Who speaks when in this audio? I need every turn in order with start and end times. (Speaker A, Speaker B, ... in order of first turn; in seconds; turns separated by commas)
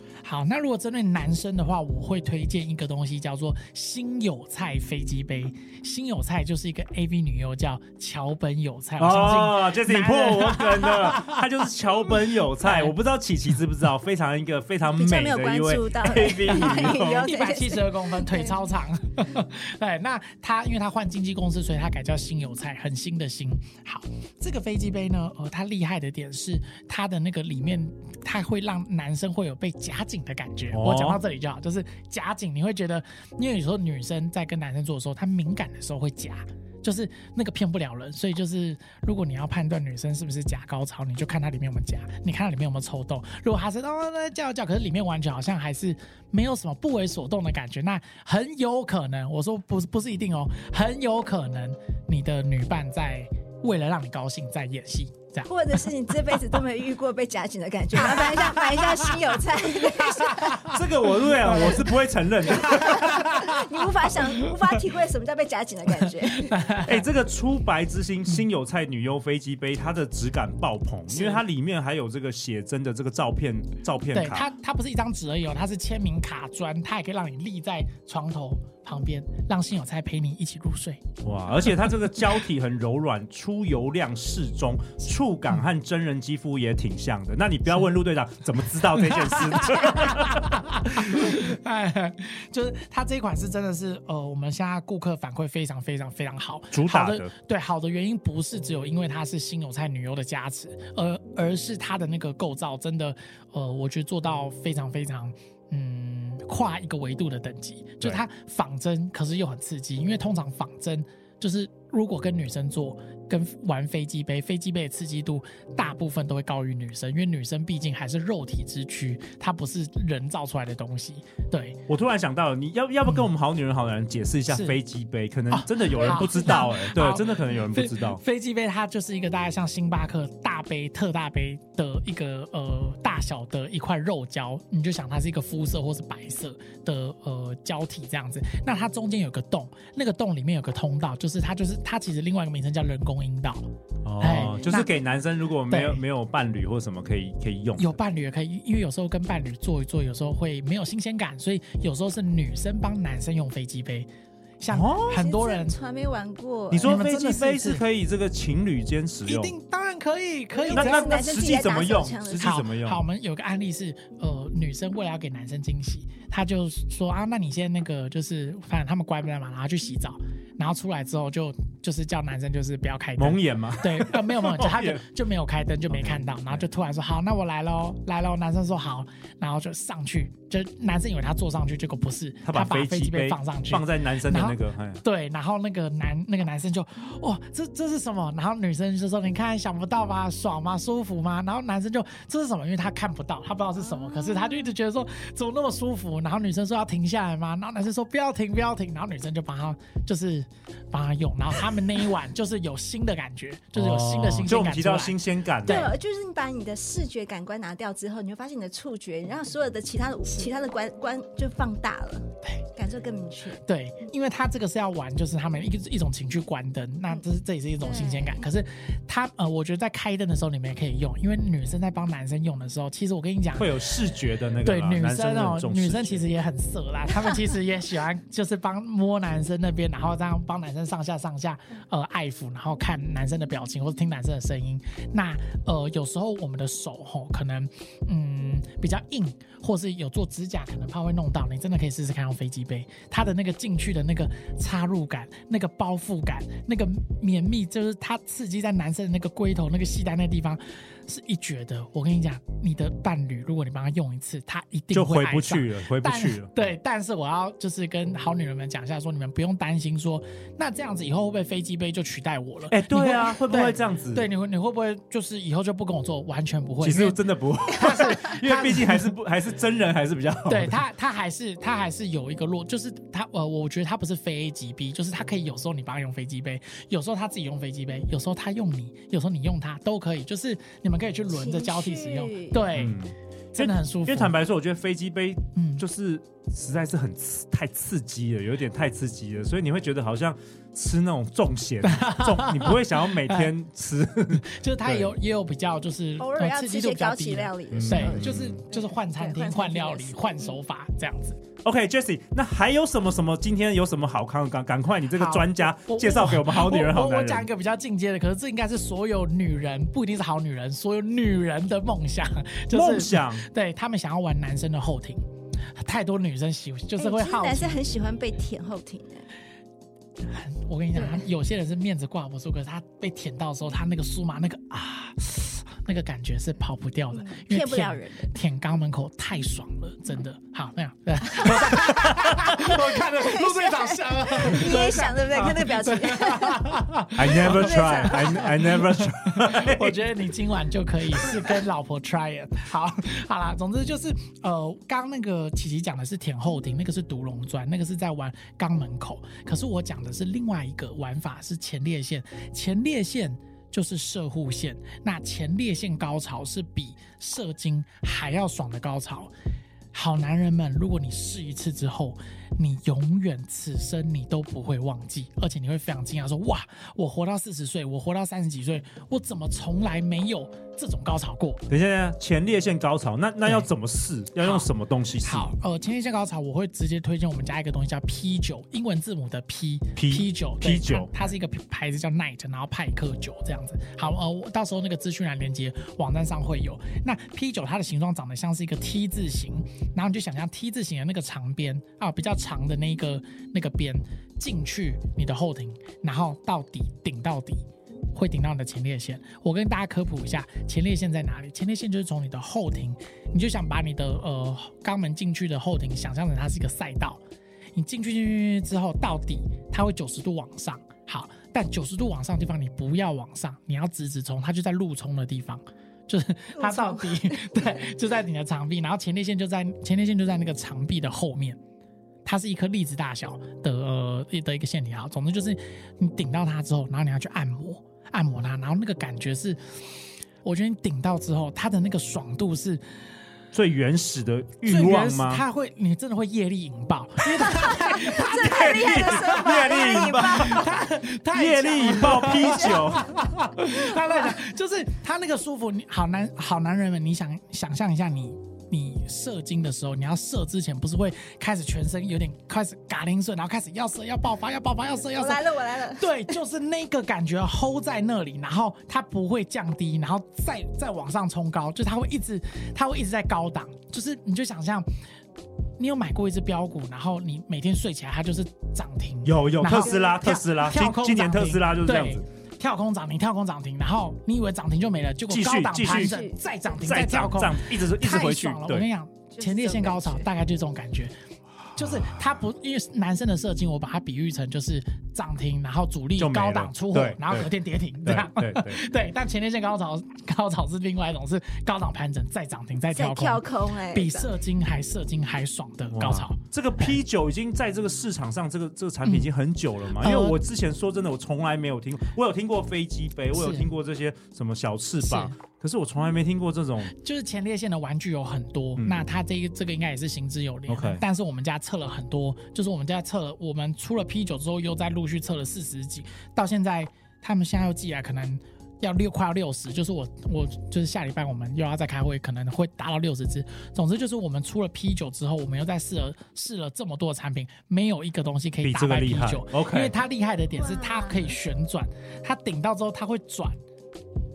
Speaker A: 0.2-11.5, Speaker B: 9.0-17.3, Speaker A: 12.1-12.9, Speaker C: 14.9-18.6, Speaker A: 16.5-55.5, Speaker B: 30.7-31.2, Speaker C: 55.5-60.7, Speaker A: 58.0-62.0, Speaker B: 60.6-63.3, Speaker A: 62.6-63.8, Speaker C: 62.6-66.6, Speaker A: 66.1-67.1, Speaker B: 66.8-74.5, Speaker A: 71.1-71.4, Speaker A: 74.1-81.0, Speaker B: 81.2-90.6, Speaker A: 89.0-121.8, Speaker B: 96.7-97.3, Speaker B: 121.9-128.2, Speaker A: 124.5-124.8, Speaker A: 125.5-143.7, Speaker B: 144.1-148.0, Speaker A: 144.2-144.9, Speaker A: 145.7-146.0, Speaker A: 147.8-154.1, Speaker A: 154.6-155.8, Speaker B: 154.7-155.2, Speaker C: 155.1-157.0, Speaker B: 156.7-159.5, Speaker A: 156.8-157.8, Speaker A: 159.3-161.2, Speaker C: 160.6-162.6, Speaker B: 160.7-163.0, Speaker A: 162.3-206.0, Speaker B: 173.2-175.0, Speaker B: 175.9-176.7, Speaker B: 182.4-185.0, Speaker C: 194.2-194.5, Speaker B: 203.7-205.9, Speaker C: 205.7-213.6, Speaker A: 213.6-223.8, Speaker C: 217.8-218.5, Speaker B: 223.6-226.3, Speaker A: 224.6-267.2, Speaker B: 254.9-256.5, Speaker B: 262.7-264.3, Speaker B: 266.8-270.8, Speaker A: 267.7-269.1, Speaker A: 270.5-283.0, Speaker C: 281.3-282.7, Speaker B: 282.7-295.1, Speaker A: 283.6-284.4, Speaker A: 285.6-285.8, Speaker A: 291.8-293.5, Speaker A: 294.4-301.4, Speaker C: 296.2-300.6, Speaker B: 297.7-298.6, Speaker B: 301.6-307.5, Speaker A: 305.1-317.8, Speaker B: 312.7-313.5, Speaker C: 317.0-319.3, Speaker A: 320.2-359.3, Speaker C: 327.1-328.3, Speaker C: 331.4-336.8, Speaker B: 337.1-340.0, Speaker C: 337.4-338.6, Speaker A: 359.9-371.6, Speaker B: 371.7-375.5, Speaker A: 374.4-374.7, Speaker A: 375.2-407.2, Speaker B: 380.0-381.2, Speaker A: 407.8-421.6, Speaker C: 416.6-417.4, Speaker A: 422.2-432.8, Speaker B: 433.5-435.4, Speaker A: 434.6-464.9, Speaker C: 437.5-440.7, Speaker B: 438.2-440.7, Speaker B: 441.3-443.2, Speaker C: 442.3-443.0, Speaker C: 455.2-456.3, Speaker A: 465.8-481.1, Speaker B: 469.2-472.2, Speaker C: 469.8-470.2, Speaker B: 475.3-476.2, Speaker C: 475.8-476.5, Speaker B: 476.8-478.9, Speaker C: 479.4-480.3, Speaker A: 481.8-497.0, Speaker B: 481.8-482.1, Speaker B: 486.2-487.5, Speaker B: 488.1-488.8, Speaker C: 492.9-494.4, Speaker B: 495.9-506.9, Speaker A: 499.0-499.3, Speaker A: 499.9-500.4, Speaker A: 503.3-503.7, Speaker A: 505.0-505.4, Speaker A: 506.9-533.6, Speaker B: 508.8-509.0, Speaker B: 510.7-511.0, Speaker B: 528.6-529.9, Speaker C: 530.5-531.4